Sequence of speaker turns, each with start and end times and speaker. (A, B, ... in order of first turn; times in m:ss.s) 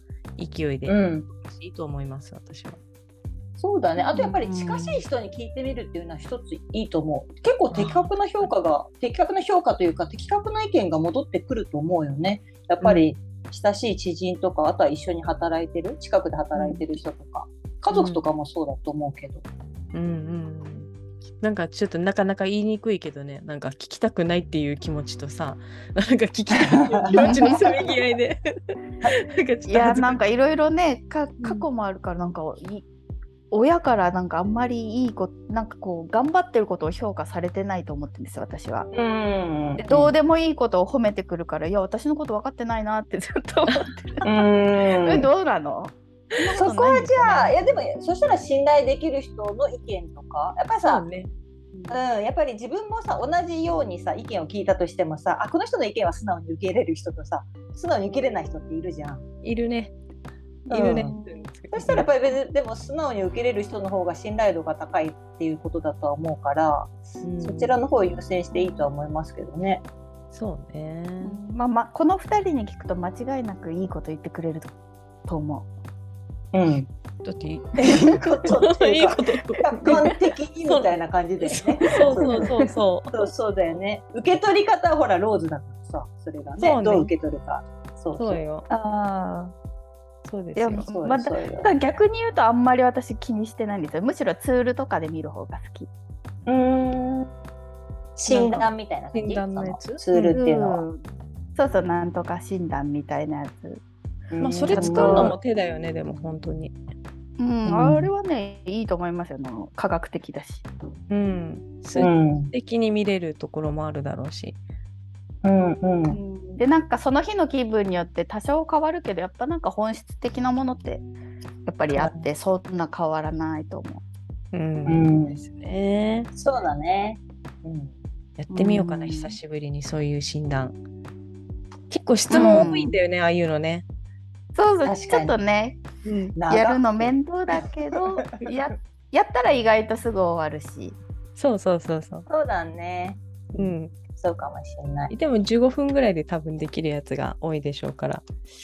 0:00.4-0:02.8 A
0:00.9-0:01.3 B
0:03.6-0:19.4 B
0:04.0-0:05.0 C
0:07.7-0:08.5 A
0:12.8-0:13.1 A
0:17.9-0:18.2 A
0:19.9-0:30.2 A
0:26.6-0:27.5 B
0:27.2-0:27.7 C
0:29.7-0:32.9 C
0:31.4-0:31.7 A
0:33.5-0:38.9 C
0:38.9-0:40.1 B
0:39.8-0:44.5 C
0:44.2-0:45.3 B
0:45.0-0:47.9 C
0:46.6-0:51.0 B
0:50.8-0:51.3 A
0:51.9-0:59.2 B
0:59.4-0:59.9 A
1:00.7-1:02.1 A
1:00.7-1:09.8 B
1:01.1-1:01.4 C
1:07.2-1:07.7 A
1:08.5-1:08.9 C
1:10.3-1:11.4 A
1:11.2-1:14.7 C
1:15.3-1:15.7 C
1:16.5-1:16.9 B
1:17.2-1:23.1 A
1:17.8-1:28.4 B
1:21.9-1:22.6 C
1:26.6-1:27.1 A
1:28.2-1:28.7 A
1:28.7-1:29.5 C
1:30.2-1:30.9 A
1:30.6-1:35.9 C
1:30.9-1:31.7 B
1:36.5-1:37.3 B
1:38.2-1:40.8 B
1:38.3-1:38.7 C
1:39.1-1:40.3 A
1:40.2-1:41.0 C
1:41.6-1:43.8 C
1:44.3-1:45.4 B
1:44.4-1:46.8 A
1:44.7-1:45.4 C
1:47.4-1:50.7 C
1:47.7-1:48.1 B
1:51.1-1:54.6 A
1:52.0-1:52.5 B
1:55.4-1:56.2 B
1:56.1-2:01.1 C
2:01.6-2:04.0 C
2:02.0-2:02.3 B
2:04.5-2:06.3 A
2:04.9-2:05.4 B
2:06.4-2:07.9 B
2:08.4-2:10.8 A
2:08.5-2:09.4 C
2:11.9-2:13.8 A
2:12.3-2:13.0 C
2:12.3-2:12.7 B
2:14.6-2:15.8 C
2:14.8-2:15.4 B
2:16.0-2:16.4 A
2:16.4-2:17.6 B
2:16.5-2:21.0 C
2:18.2-2:18.5 B
2:21.4-2:22.3 A
2:22.3-2:25.1 B
2:23.6-2:24.0 A
2:25.1-2:28.2 A